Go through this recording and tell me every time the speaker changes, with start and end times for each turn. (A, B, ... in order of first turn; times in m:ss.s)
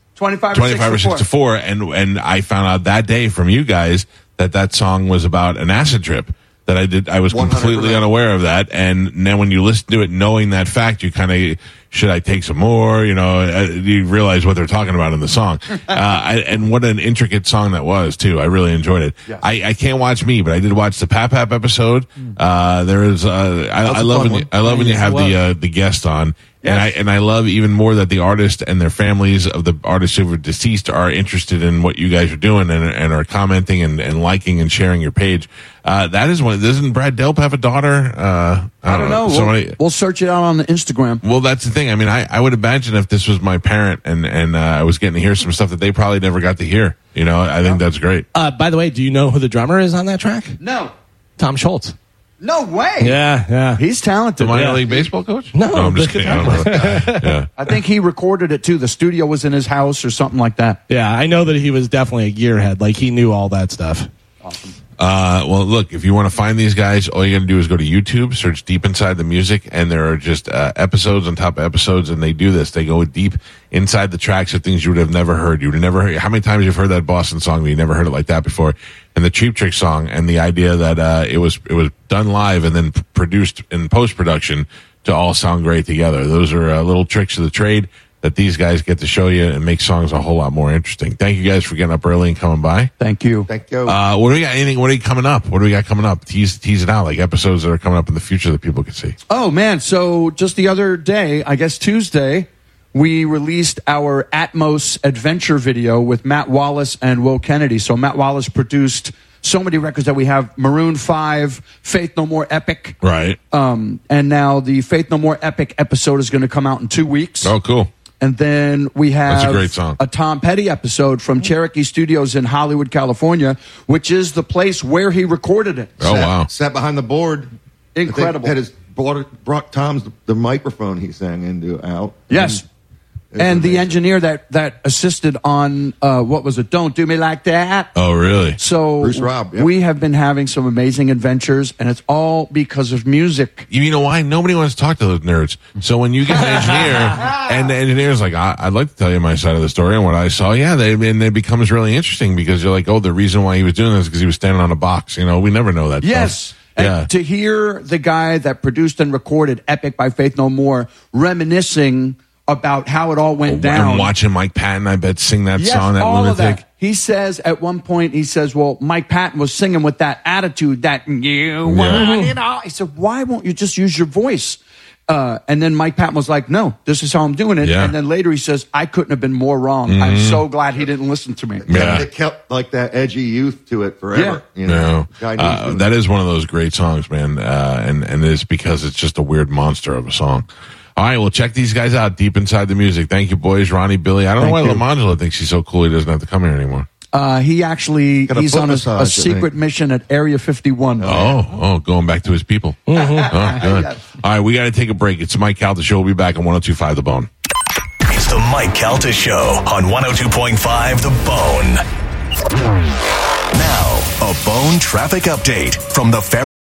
0:00.2-0:01.3 A
0:00.5-0:39.8 B
0:07.3-0:08.1 C
0:23.8-0:24.5 C
0:24.7-0:25.4 A
0:26.6-0:27.0 A
0:38.9-0:41.2 A
0:41.2-0:48.3 B
0:48.3-0:50.6 D
0:50.6-0:50.9 A
0:51.4-0:52.0 D
0:52.4-0:53.2 A
0:53.0-0:53.8 D
0:53.8-0:55.1 A
0:54.4-0:57.5 B
0:54.5-0:54.8 D
0:55.5-0:57.4 D
0:57.6-1:00.8 A
1:00.9-1:04.1 D
1:04.4-1:04.8 A
1:05.0-1:32.9 B
1:33.0-1:33.5 A
1:33.5-1:34.0 C
1:33.9-1:39.2 B
1:39.3-1:53.0 A
1:53.0-1:53.4 B
1:53.5-1:57.5 A
1:57.4-1:57.9 B
1:58.2-2:06.0 A
1:59.3-2:00.0 B
2:06.0-2:06.5 B
2:06.0-2:07.5 C
2:08.0-2:08.6 A
2:08.1-2:12.6 C
2:12.3-2:12.6 A
2:13.3-2:14.0 C
2:13.4-2:17.9 A
2:18.0-2:18.6 B
2:18.6-2:23.7 A
2:19.0-2:19.7 C
2:23.7-2:37.1 B
2:36.0-2:44.1 A
2:43.5-2:46.6 B
2:45.5-3:01.9 A
2:51.6-2:52.1 B
2:51.9-2:52.4 D
2:57.6-2:58.0 B
2:59.9-3:00.5 B
3:01.6-3:05.9 C
3:01.7-3:02.1 B
3:04.1-3:04.4 A
3:04.7-3:10.5 B
3:11.0-3:16.9 B
3:14.4-3:14.9 A
3:17.1-3:21.3 A
3:18.3-3:19.5 C
3:21.0-3:21.4 C
3:21.0-3:27.3 B
3:22.9-3:23.3 D
3:22.9-3:24.0 A
3:28.1-3:31.8 E
3:33.5-3:36.4 E